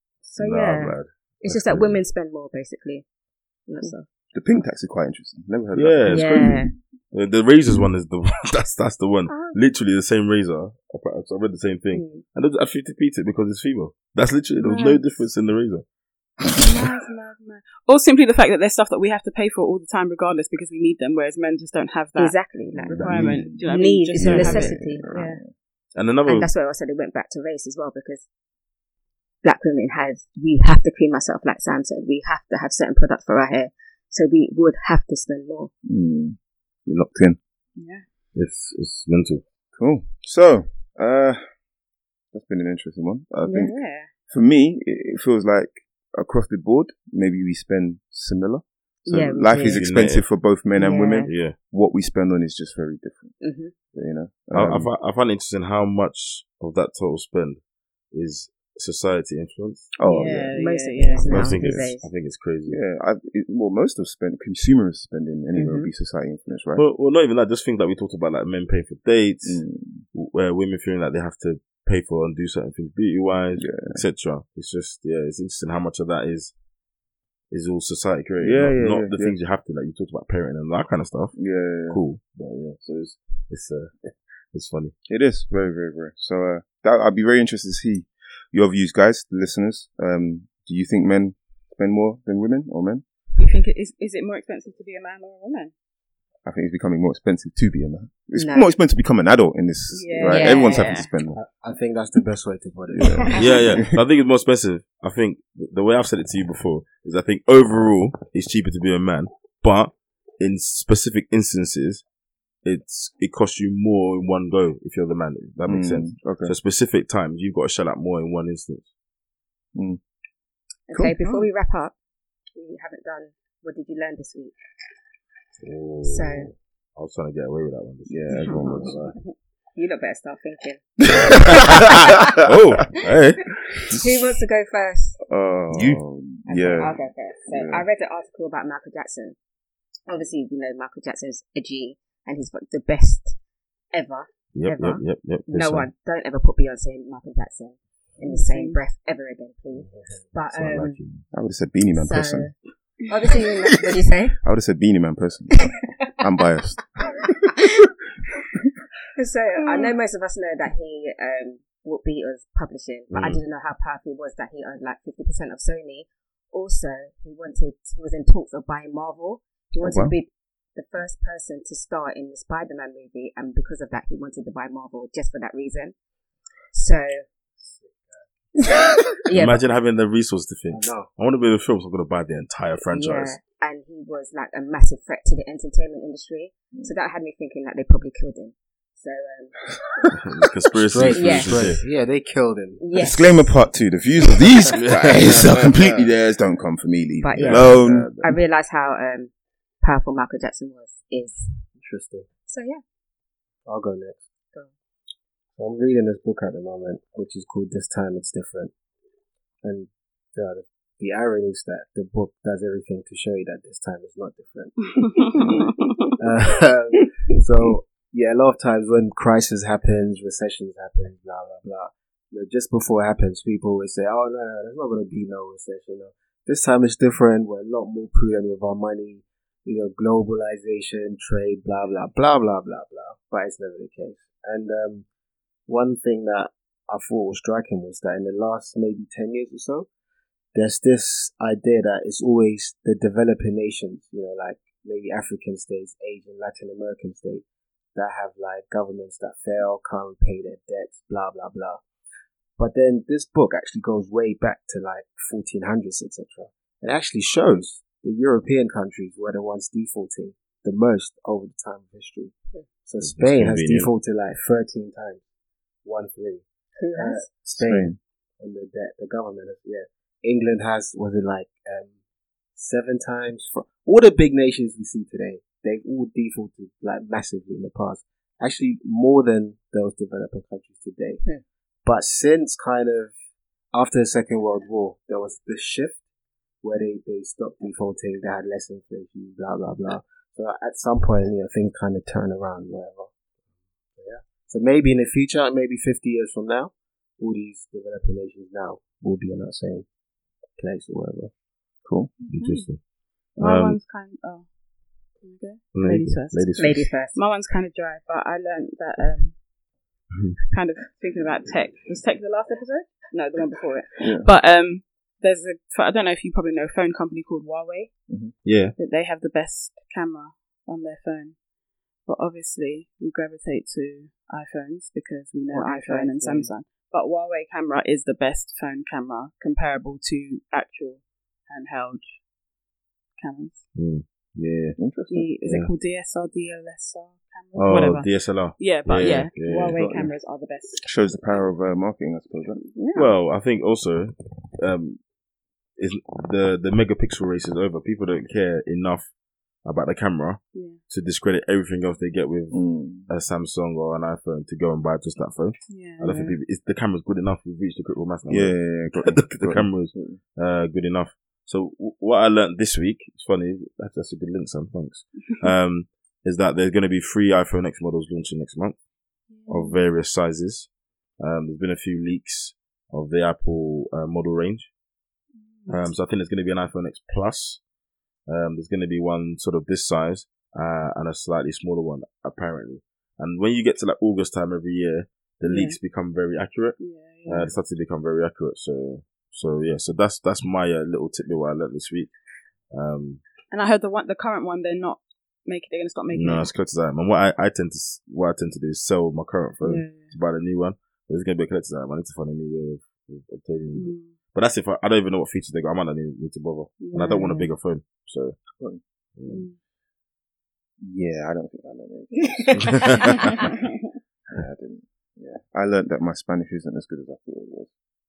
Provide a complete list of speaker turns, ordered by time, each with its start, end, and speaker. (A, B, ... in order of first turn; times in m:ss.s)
0:00.2-0:03.0 A
0:00.4-0:02.0 B
0:03.7-0:04.0 A
0:04.3-0:06.5 C
0:05.7-0:15.8 B
0:06.1-0:06.7 A
0:09.3-0:09.6 A
0:11.9-0:12.2 A
0:14.6-0:15.0 A
0:16.5-0:22.3 D
0:22.2-0:25.3 A
0:22.7-0:25.5 C
0:22.9-0:25.3 D
0:22.9-0:23.4 B
0:26.0-0:26.5 B
0:26.3-0:28.2 A
0:29.4-0:35.7 A
0:35.8-0:37.4 C
0:37.8-0:38.0 D
0:38.4-0:39.4 B
0:39.8-0:41.4 C
0:42.3-0:43.7 C
0:43.4-0:44.1 A
0:44.3-0:53.4 C
0:49.0-0:49.8 A
0:49.7-0:50.2 B
0:50.8-0:51.3 A
0:51.2-0:51.6 B
0:53.4-0:53.7 A
0:53.9-0:54.9 C
0:54.5-0:57.6 B
0:58.1-0:59.9 B
1:00.0-1:00.5 C
1:00.0-1:01.5 D
1:00.5-1:02.1 A
1:01.3-1:02.8 B
1:01.3-1:01.9 C
1:02.7-1:06.8 C
1:05.6-1:05.9 A
1:06.8-1:09.6 B
1:09.4-1:10.0 C
1:10.1-1:16.5 B
1:13.6-1:14.0 C
1:17.5-1:21.4 B
1:18.4-1:19.4 C
1:21.4-1:22.0 C
1:21.9-1:24.9 B
1:25.1-1:33.0 C
1:33.4-1:35.7 D
1:36.4-1:41.4 C
1:38.4-1:38.7 A
1:39.9-1:41.1 D
1:40.2-1:41.1 A
1:41.3-1:43.4 E
1:42.9-1:44.0 C
1:43.2-1:43.8 A
1:43.3-1:52.0 B
1:52.6-1:58.9 B
1:55.6-1:56.6 C
1:59.7-2:00.0 C
2:00.9-2:01.9 A
2:00.9-2:01.2 C
2:02.6-2:04.5 A
2:05.6-2:09.1 B
2:06.0-2:06.5 A
2:08.1-2:09.1 C
2:09.8-2:10.8 A
2:11.1-2:12.5 C
2:11.2-2:14.0 B
2:11.7-2:12.1 A
2:13.9-2:15.2 A
2:15.2-2:17.8 C
2:15.7-2:16.0 B
2:16.4-2:19.4 A
2:20.1-2:23.4 A
2:23.9-2:31.0 A
2:24.5-2:25.9 B
2:28.2-2:28.8 D
2:29.9-2:30.3 E
2:30.5-2:31.2 B
2:31.3-2:32.5 C
2:31.9-2:32.5 A
2:33.1-2:34.4 A
2:34.4-2:37.7 C
2:39.2-2:55.9 A
2:43.1-2:43.4 B
2:49.8-2:50.1 C
2:56.7-2:57.2 A
2:57.6-2:58.2 E
2:58.6-2:59.7 A
2:59.3-3:03.4 B
3:00.7-3:01.1 E
3:02.9-3:09.6 A
3:10.1-3:11.8 B
3:10.8-3:12.8 E
3:11.2-3:11.6 A
3:12.8-3:13.5 A
3:12.9-3:18.4 C
3:14.5-3:16.1 B
3:17.2-3:19.3 A
3:17.4-3:17.8 B
3:17.8-3:18.1 E
3:19.8-3:21.5 A
3:21.8-3:22.3 E
3:22.5-3:22.8 A
3:23.6-3:24.3 E
3:25.5-3:28.7 E
3:29.6-3:35.7 E
3:35.1-3:36.1 D
3:35.4-3:35.7 C
3:36.2-3:55.0 E
3:55.7-3:59.9 E
4:00.5-4:11.8 E
4:12.6-4:25.2 E
4:23.0-4:23.9 B
4:25.8-4:26.4 E
4:26.8-4:27.3 A
4:26.9-4:31.9 E
4:27.5-4:28.0 C
4:32.5-4:41.2 E
4:41.8-4:43.1 E
4:43.7-4:46.0 E
4:46.6-4:53.1 E
4:53.9-4:59.9 E
5:00.6-5:01.3 E
5:01.8-5:02.1 C
5:02.2-5:02.7 D
5:02.3-5:02.8 B
5:03.4-5:03.8 B
5:03.4-5:04.5 D
5:05.2-5:06.5 D
5:05.7-5:06.9 B
5:06.6-5:07.2 A
5:07.1-5:09.3 D
5:10.1-5:10.4 B
5:10.5-5:17.9 D
5:14.0-5:14.3 C
5:18.4-5:18.7 B
5:18.8-5:21.4 D
5:22.0-5:32.2 D
5:25.5-5:26.5 A
5:33.2-5:33.6 D
5:33.8-5:34.8 B
5:34.8-5:35.3 C
5:35.1-5:40.8 D
5:35.4-5:35.7 B
5:37.6-5:39.9 B
5:39.7-5:40.1 C
5:40.8-5:42.6 C
5:42.6-5:43.1 D
5:42.9-5:45.0 B
5:45.8-5:49.1 B
5:49.6-6:08.8 B
5:50.5-5:50.8 D
5:52.5-5:53.1 C
5:55.7-5:56.4 D
5:58.3-6:00.2 C
6:09.3-6:09.8 D
6:09.5-6:10.7 B
6:11.2-6:14.7 B
6:15.4-6:15.9 D
6:15.7-6:17.6 B
6:18.3-6:32.1 B
6:25.4-6:25.8 D
6:26.8-6:27.5 D
6:32.7-6:33.2 B
6:33.5-6:36.5 D
6:36.1-6:48.4 B
6:39.6-6:40.1 D
6:43.7-6:44.1 D
6:46.8-6:47.5 D
6:49.2-6:49.5 B
6:49.3-6:49.6 D
6:50.8-6:53.5 C
6:52.5-6:53.3 B
6:54.3-6:57.7 C